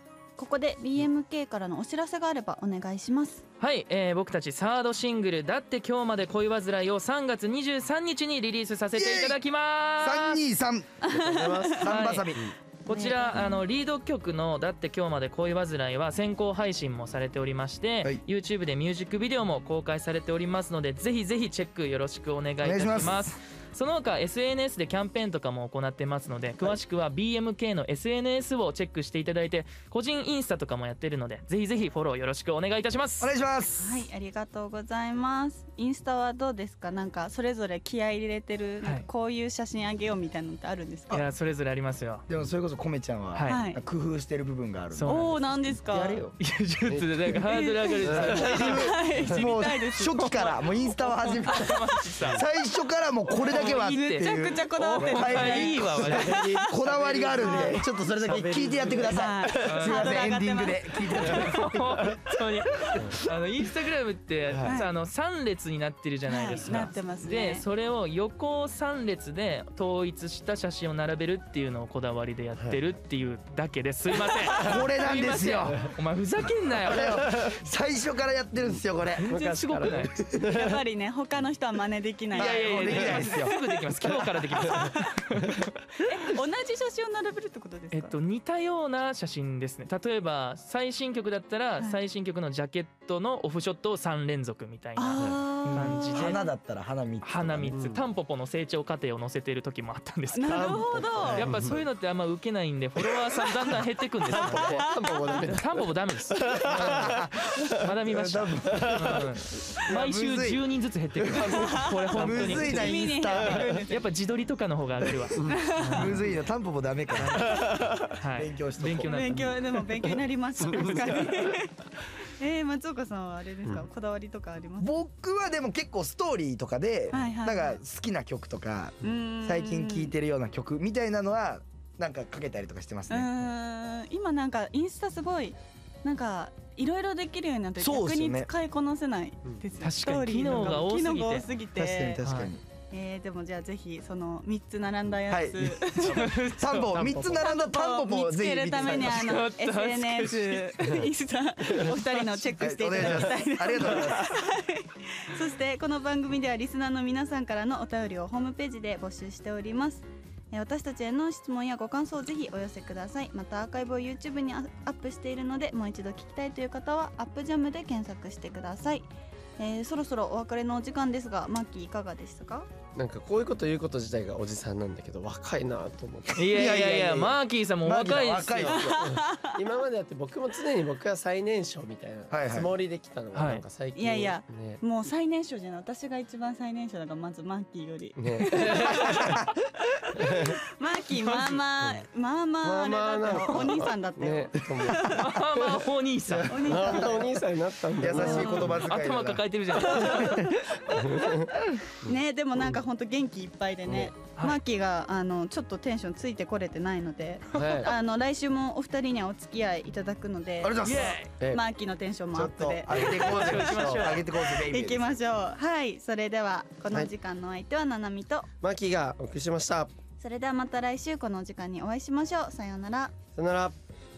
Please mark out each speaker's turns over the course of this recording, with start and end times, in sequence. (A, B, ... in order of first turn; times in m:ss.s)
0:00.4-0:03.4 A
0:03.6-0:10.4 B
0:08.9-0:09.4 C
0:10.0-0:11.0 C
0:11.0-0:11.8 A
0:11.1-0:12.6 D
0:11.8-0:12.5 C
0:11.8-0:33.3 B
0:12.8-0:13.6 A
0:22.6-0:23.3 C
0:33.2-0:34.0 C
0:33.8-0:41.2 A
0:41.1-0:42.2 B
0:42.3-0:46.3 C
0:43.3-0:43.6 B
0:43.5-0:43.8 A
0:44.9-0:45.4 B
0:45.0-0:46.2 A
0:46.4-0:48.9 B
0:46.9-0:47.5 D
0:47.4-0:51.7 A
0:48.0-0:49.4 D
0:48.1-1:02.1 C
0:51.0-0:52.4 B
0:53.3-0:56.7 A
0:53.4-0:56.5 B
0:55.9-0:59.7 D
0:57.4-0:57.8 A
0:59.0-1:01.6 A
0:59.6-1:00.2 B
1:01.2-1:17.5 B
1:02.9-1:03.2 C
1:02.9-1:03.2 D
1:04.5-1:04.8 D
1:04.6-1:04.9 A
1:06.2-1:07.6 A
1:14.2-1:14.8 D
1:14.5-1:15.8 C
1:16.9-1:19.3 C
1:16.9-1:17.5 D
1:19.2-1:20.1 B
1:19.3-1:20.8 D
1:19.9-1:20.2 C
1:20.4-1:23.7 A
1:22.3-1:23.6 C
1:22.3-1:26.0 B
1:24.0-1:24.9 D
1:24.5-1:25.2 A
1:26.0-1:28.2 A
1:27.9-1:36.4 B
1:35.0-1:36.4 A
1:35.6-1:38.0 C
1:37.2-1:56.2 B
1:37.7-1:38.0 D
1:40.3-1:41.6 A
1:40.5-1:41.8 D
1:44.3-1:47.7 D
1:44.3-1:45.5 A
1:46.5-1:50.6 C
1:48.7-1:49.2 D
1:51.2-1:53.7 C
1:51.4-1:52.9 D
1:51.5-1:52.0 A
1:52.5-1:54.0 A
1:55.5-1:56.1 A
1:55.9-1:57.6 C
1:57.2-1:59.6 B
1:57.4-1:58.1 D
1:58.3-1:59.1 C
1:59.0-2:04.9 A
2:00.8-2:01.6 D
2:04.8-2:13.3 C
2:07.1-2:07.8 A
2:09.0-2:10.1 A
2:13.1-2:22.2 A
2:17.8-2:18.5 C
2:19.8-2:21.5 B
2:21.7-2:22.6 C
2:22.2-2:22.5 B
2:22.9-2:26.5 A
2:25.3-2:29.4 C
2:26.0-2:26.9 B
2:26.0-2:26.3 D
2:26.9-2:27.5 D
2:27.3-2:52.7 A
2:28.9-2:31.0 B
2:31.7-2:31.9 D
2:32.6-2:34.3 C
2:33.0-2:33.2 D
2:33.8-2:34.2 D
2:52.9-2:56.5 D
2:56.3-2:58.8 B
2:56.4-2:59.1 C
2:58.6-3:04.8 D
2:58.7-2:59.6 A
3:02.3-3:02.7 C
3:03.3-3:03.6 B
3:03.9-3:15.3 A
3:08.2-3:09.5 D
3:09.2-3:09.5 C
3:10.1-3:10.6 D
3:11.2-3:11.6 B
3:12.6-3:15.8 D
3:15.0-3:17.1 B
3:16.3-3:17.4 C
3:16.4-3:18.9 D
3:16.5-3:17.4 A
3:18.0-3:20.5 C
3:18.1-3:18.8 A
3:18.2-3:20.5 B
3:19.7-3:20.7 A
3:20.8-3:22.7 D
3:22.0-3:33.7 A
3:23.9-3:24.1 D
3:27.5-3:27.9 D
3:27.6-3:27.9 B
3:30.6-3:31.2 C
3:30.8-3:31.3 B
3:32.3-3:35.2 C
3:32.9-3:34.1 D
3:32.9-3:34.2 B
3:34.4-3:38.5 A
3:38.6-3:39.9 D
3:40.2-3:43.1 A
3:43.3-3:43.8 D